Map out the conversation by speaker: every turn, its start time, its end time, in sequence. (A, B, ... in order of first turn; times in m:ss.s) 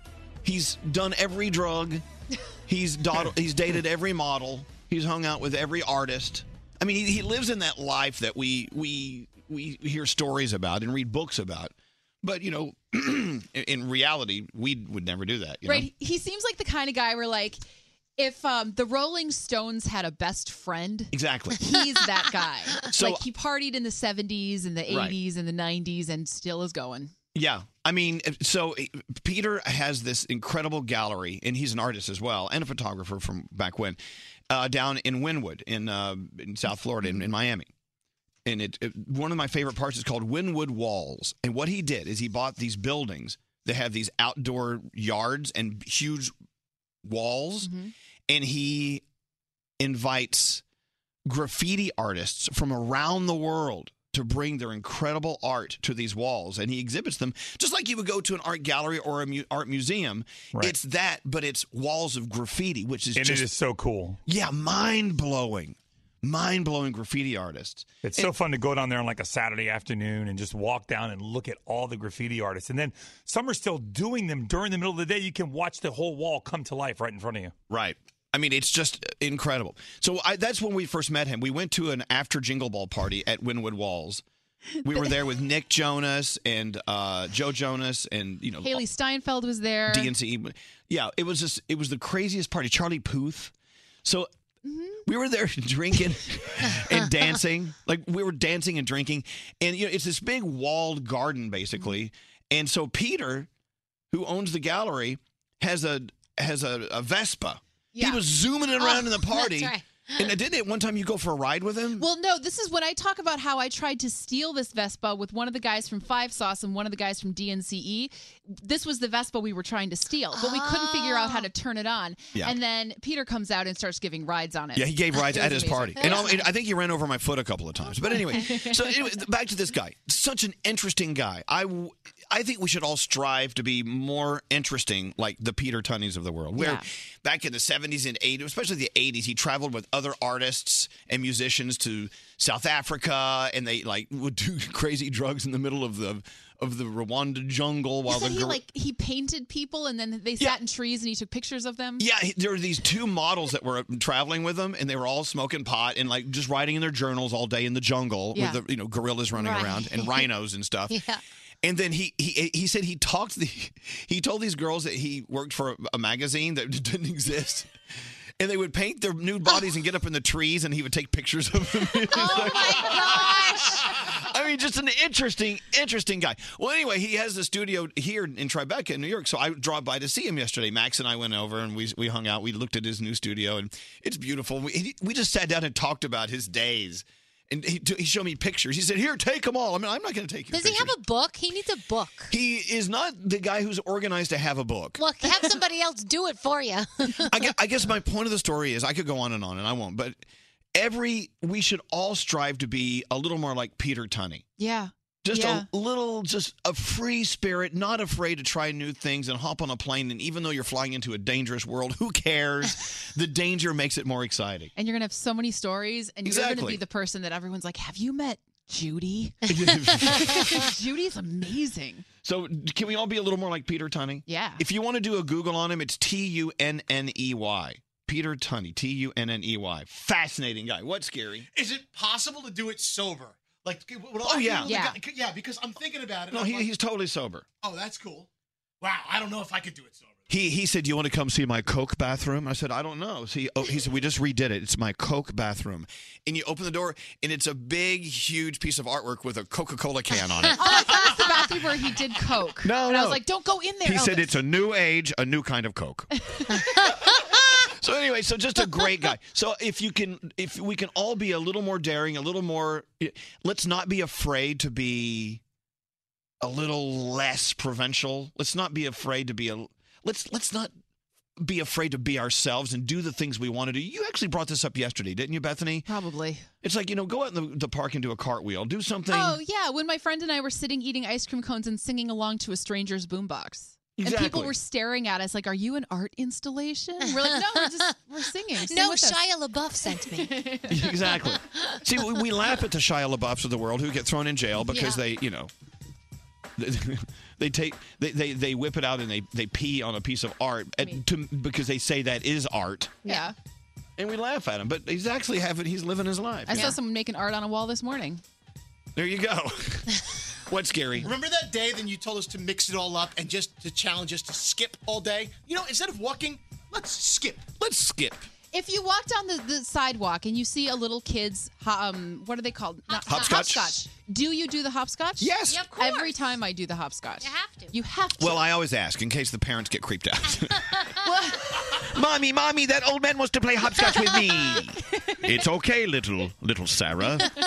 0:00.4-0:02.0 A
0:02.7-0:15.9 A
0:15.6-0:17.6 B
0:18.2-0:27.1 B
0:21.1-0:21.6 A
0:22.9-0:23.2 A
0:24.9-0:25.2 A
0:27.3-0:34.0 A
0:34.5-0:37.7 A
0:38.4-0:46.3 A
0:47.0-0:47.7 A
0:47.6-0:47.9 B
0:48.3-0:49.0 A
0:49.8-0:50.6 A
0:51.2-1:03.5 A
1:03.1-1:04.2 C
1:04.2-1:08.3 A
1:08.0-1:17.5 C
1:17.7-1:24.2 A
1:24.8-1:28.8 A
1:28.6-1:30.1 B
1:29.9-1:33.5 A
1:34.6-1:35.0 B
1:35.0-1:43.5 A
1:36.7-1:37.2 D
1:44.1-1:52.0 A
1:47.9-1:48.2 B
1:48.8-1:50.3 D
1:52.0-2:06.4 B
2:00.3-2:01.5 D
2:04.7-2:28.6 A
2:06.0-2:06.5 D
2:08.1-2:08.6 D
2:16.6-2:16.8 B
2:28.1-2:32.0 B
2:32.0-2:41.0 A
2:38.3-2:38.6 B
2:39.3-2:40.3 D
2:40.9-2:41.2 D
2:41.6-2:47.7 A
2:48.4-3:10.9 A
2:52.1-2:54.1 D
3:10.5-3:12.3 D
3:12.3-3:15.0 A
3:15.0-3:17.5 D
3:17.3-3:20.2 A
3:20.7-3:24.4 A
3:24.6-3:25.7 B
3:25.2-3:34.7 A
3:34.8-3:42.0 B
3:36.2-3:36.8 A
3:39.5-3:40.6 A
3:42.2-3:51.5 A
3:44.2-3:44.6 B
3:51.5-3:56.7 E
3:54.2-3:54.7 A
3:54.6-3:55.0 B
3:56.3-3:57.4 A
3:57.6-3:58.3 E
3:58.8-4:00.3 E
4:00.3-4:11.1 A
4:10.4-4:11.1 D
4:10.5-4:14.3 B
4:12.6-4:13.2 A
4:13.8-4:16.1 A
4:17.6-4:25.4 A
4:26.4-4:30.7 A
4:31.4-4:35.9 A
4:35.8-4:36.4 B
4:36.6-4:39.4 A
4:39.1-4:49.2 B
4:44.0-4:44.5 A
4:47.0-4:47.9 D
4:48.7-4:50.3 D
4:49.9-4:51.0 B
4:50.7-4:55.5 A
4:51.6-4:52.2 D
4:54.6-4:55.0 D
4:56.6-5:03.0 A
5:03.0-5:03.3 D
5:03.0-5:03.3 B
5:04.0-5:06.8 A
5:06.5-5:08.2 B
5:09.0-5:09.9 A
5:10.5-5:11.1 A
5:11.0-5:17.5 E
5:17.6-5:18.3 A
5:18.5-5:28.5 B
5:22.9-5:23.6 D
5:23.1-5:23.7 A
5:25.2-5:25.6 A
5:25.4-5:26.1 D
5:27.2-5:27.7 D
5:28.2-5:30.8 A
5:31.0-5:31.6 B
5:31.8-5:37.3 A
5:33.9-5:34.6 D